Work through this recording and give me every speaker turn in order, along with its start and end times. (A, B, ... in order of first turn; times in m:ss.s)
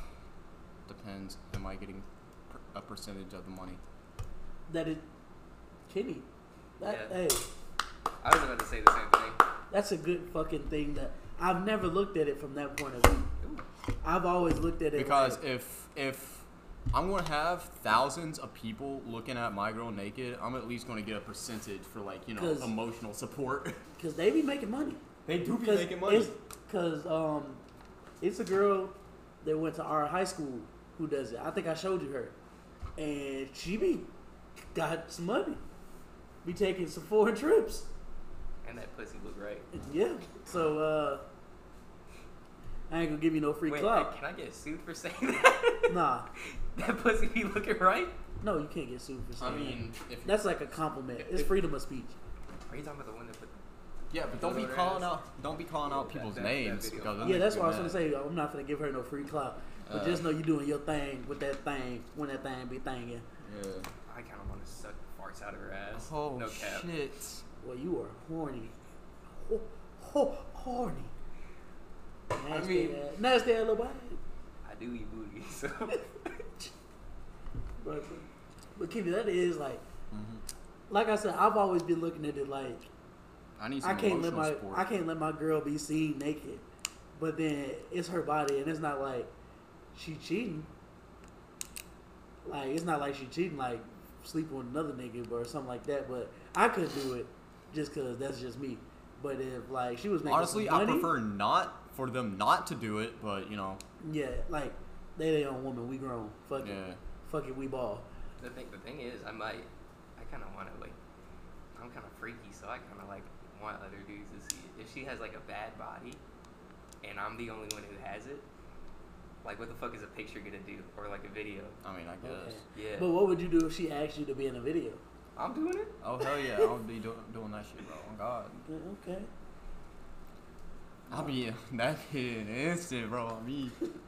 0:00.9-0:03.8 A
0:04.7-0:05.1 B
0:05.9-0:06.3 B
0:06.8-0:07.4 B
0:06.8-0:07.1 C
0:08.2-0:09.4 C
0:09.7-0:13.3 B
0:14.0-0:15.4 B
0:15.0-0:23.8 A
0:22.4-0:22.7 B
0:24.0-0:25.0 B
0:25.2-0:26.3 A
0:25.6-0:27.6 B
0:28.2-0:32.3 B
0:33.0-0:34.1 B
0:34.7-0:35.6 B
0:36.4-0:37.9 B
0:38.6-0:39.7 C
0:39.7-0:41.2 B
0:42.9-0:44.1 B
0:43.6-0:46.0 C
0:45.9-0:46.3 B
0:46.6-0:48.1 C
0:48.4-0:52.2 B
0:49.4-0:50.4 A
0:51.2-0:51.5 C
0:52.7-0:53.6 C
0:54.1-0:58.0 A
0:54.2-0:55.1 C
0:55.8-0:57.5 C
0:57.2-1:03.2 B
0:59.9-1:00.3 A
1:03.4-1:03.9 A
1:04.1-1:06.9 C
1:05.9-1:07.4 A
1:07.6-1:08.7 B
1:09.3-1:11.1 B
1:12.3-1:14.2 B
1:12.5-1:13.0 C
1:14.6-1:16.7 C
1:17.8-1:19.8 B
1:20.1-1:20.4 A
1:20.9-1:22.9 B
1:23.6-1:24.9 A
1:23.8-1:29.3 B
1:29.9-1:30.7 B
1:32.4-1:41.1 B
1:40.2-1:43.8 A
1:44.0-1:48.1 B
1:46.6-1:47.0 A
1:48.4-1:51.0 C
1:51.7-1:56.2 C
1:57.0-1:58.5 C
1:59.4-2:01.8 C
2:01.8-2:02.6 A
2:02.2-2:05.0 B
2:02.7-2:03.1 C
2:05.4-2:05.9 C
2:06.0-2:08.6 A
2:08.7-2:09.3 B
2:11.1-2:13.8 A